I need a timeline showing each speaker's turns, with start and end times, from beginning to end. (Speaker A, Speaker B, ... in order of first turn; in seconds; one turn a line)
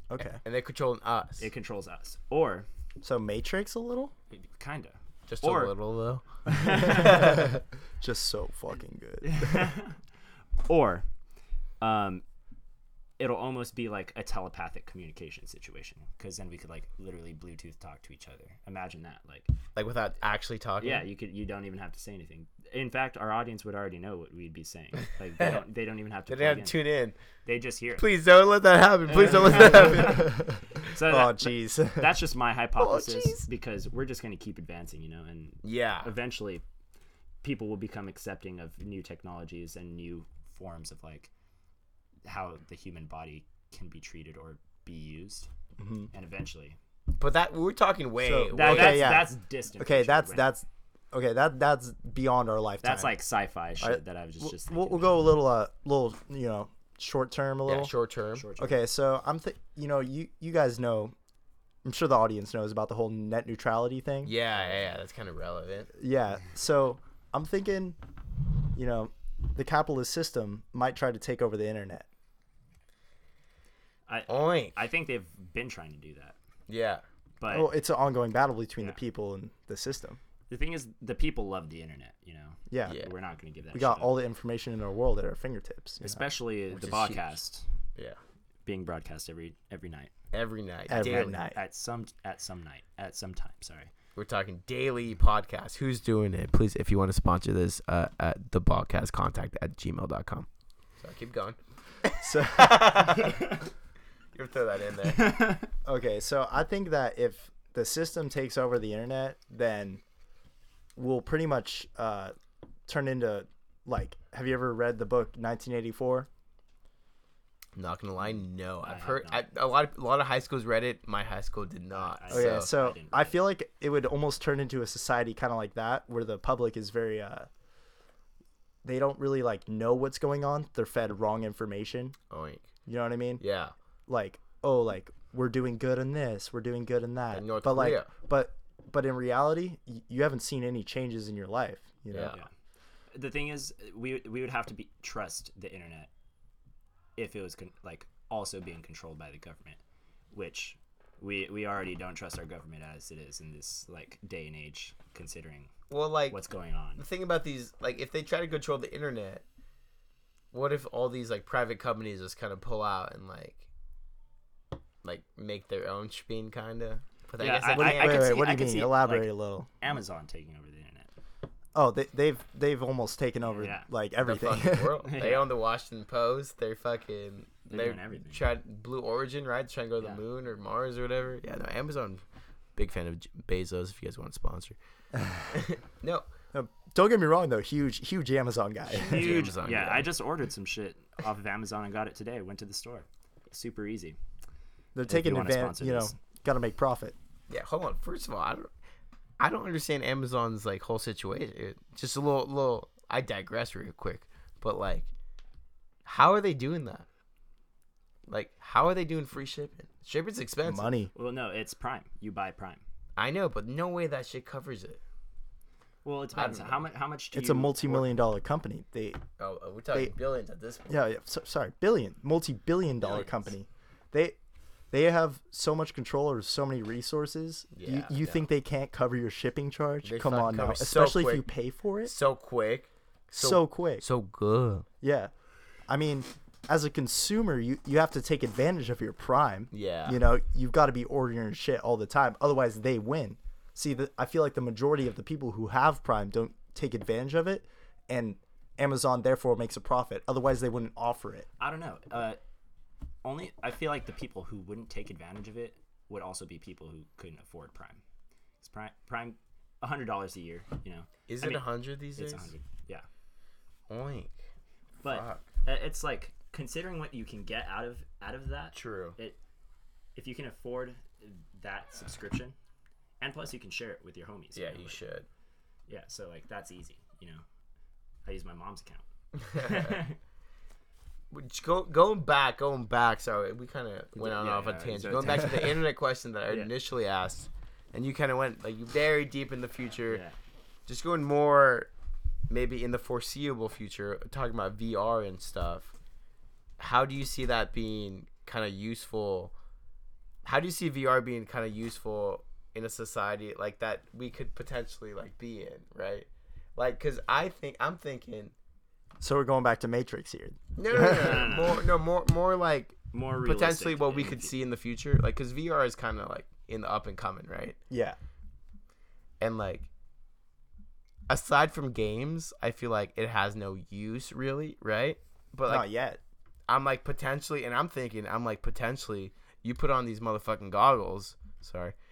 Speaker A: 0.1-0.4
Speaker B: 0.4-1.5
Speaker C: 1.4-2.7
Speaker A: 3.0-4.1
Speaker C: 4.3-5.7
Speaker B: 5.3-7.5
Speaker C: 6.5-7.4
Speaker A: 6.7-9.7
Speaker C: 9.2-10.0
Speaker C: 10.7-11.1
Speaker C: 11.8-12.2
Speaker C: 13.2-19.5
Speaker B: 19.8-21.1
Speaker C: 20.8-26.8
Speaker B: 25.4-25.6
Speaker B: 26.3-27.2
Speaker C: 27.4-28.1
Speaker B: 28.0-30.4
Speaker C: 29.1-36.6
Speaker A: 29.5-32.1
Speaker B: 35.6-36.1
Speaker C: 37.4-41.3
Speaker C: 42.3-45.5
Speaker A: 45.8-46.1
Speaker C: 46.1-46.8
Speaker B: 47.2-49.2
Speaker A: 48.2-53.1
Speaker C: 48.5-50.5
Speaker C: 52.8-55.2
Speaker A: 53.8-57.9
Speaker B: 57.7-58.5
Speaker C: 58.4-58.8
Speaker A: 58.6-61.1
Speaker A: 61.9-64.3
Speaker B: 64.2-65.9
Speaker A: 66.0-68.0
Speaker A: 68.7-72.1
Speaker C: 74.1-76.4
Speaker B: 74.3-74.8
Speaker B: 76.7-77.0
Speaker C: 77.4-77.7
Speaker A: 77.5-80.2
Speaker C: 80.5-84.2
Speaker A: 82.7-83.0
Speaker B: 82.9-83.1
Speaker A: 83.7-86.2
Speaker C: 86.0-87.7
Speaker B: 86.7-87.4
Speaker C: 88.7-90.1
Speaker B: 90.3-91.4
Speaker A: 90.9-91.6
Speaker C: 91.0-93.9
Speaker B: 94.2-100.5
Speaker B: 101.0-103.6
Speaker A: 102.2-103.2
Speaker C: 103.2-103.5
Speaker B: 104.3-105.5
Speaker C: 105.1-105.7
Speaker A: 105.8-110.0
Speaker A: 111.0-112.3
Speaker A: 112.9-116.3
Speaker B: 117.8-122.7
Speaker C: 118.8-119.5
Speaker C: 121.9-123.4
Speaker A: 122.3-127.5
Speaker A: 128.8-132.2
Speaker B: 132.3-132.7
Speaker A: 132.9-133.4
Speaker B: 133.4-133.7
Speaker A: 134.1-142.4
Speaker B: 137.3-138.1
Speaker B: 142.1-142.4
Speaker C: 143.1-146.1
Speaker C: 147.2-149.8
Speaker C: 150.3-155.7
Speaker B: 155.9-156.4
Speaker C: 156.3-157.0
Speaker B: 157.0-159.4
Speaker B: 160.5-163.7
Speaker B: 165.0-168.4
Speaker C: 167.4-171.1
Speaker A: 167.7-169.7
Speaker A: 171.8-175.0
Speaker C: 173.5-173.9
Speaker B: 174.2-182.2
Speaker C: 175.0-175.5
Speaker C: 177.7-178.5
Speaker C: 180.0-180.2
Speaker B: 182.8-184.8
Speaker A: 185.2-185.4
Speaker B: 185.5-186.3
Speaker A: 186.5-189.5
Speaker B: 188.9-190.1
Speaker C: 188.9-194.2
Speaker A: 194.9-197.2
Speaker C: 195.1-196.1
Speaker B: 197.5-198.7
Speaker B: 199.4-205.1
Speaker B: 206.1-207.1
Speaker B: 208.3-210.9
Speaker A: 210.7-211.1
Speaker C: 211.1-212.8
Speaker B: 213.2-215.0
Speaker C: 216.1-218.1
Speaker B: 216.3-216.8
Speaker A: 217.3-219.2
Speaker B: 219.4-221.0
Speaker A: 220.9-224.4
Speaker A: 224.9-232.1
Speaker B: 227.7-228.4
Speaker B: 230.0-231.5
Speaker B: 232.1-234.9
Speaker A: 233.3-234.1
Speaker A: 235.0-235.3
Speaker A: 235.9-251.5
Speaker B: 239.7-240.2
Speaker C: 251.6-252.4
Speaker C: 253.2-258.0
Speaker C: 258.6-263.1
Speaker B: 261.3-262.5
Speaker B: 263.9-264.4
Speaker C: 265.0-269.4
Speaker B: 265.1-265.5
Speaker B: 268.7-269.2
Speaker C: 270.2-272.6
Speaker C: 273.2-275.0
Speaker B: 274.6-275.3
Speaker C: 275.9-277.4
Speaker C: 278.3-280.2
Speaker B: 279.4-280.0
Speaker B: 281.3-290.2
Speaker C: 284.2-285.8
Speaker C: 290.1-290.4
Speaker B: 290.9-291.9
Speaker B: 292.5-295.9
Speaker B: 296.8-299.5
Speaker B: 300.4-308.5
Speaker A: 309.2-311.5
Speaker B: 310.8-317.8
Speaker C: 311.0-311.9
Speaker C: 313.1-314.5
Speaker A: 317.9-318.2
Speaker B: 319.4-319.9
Speaker B: 321.3-325.9
Speaker A: 325.7-326.2
Speaker B: 326.7-331.9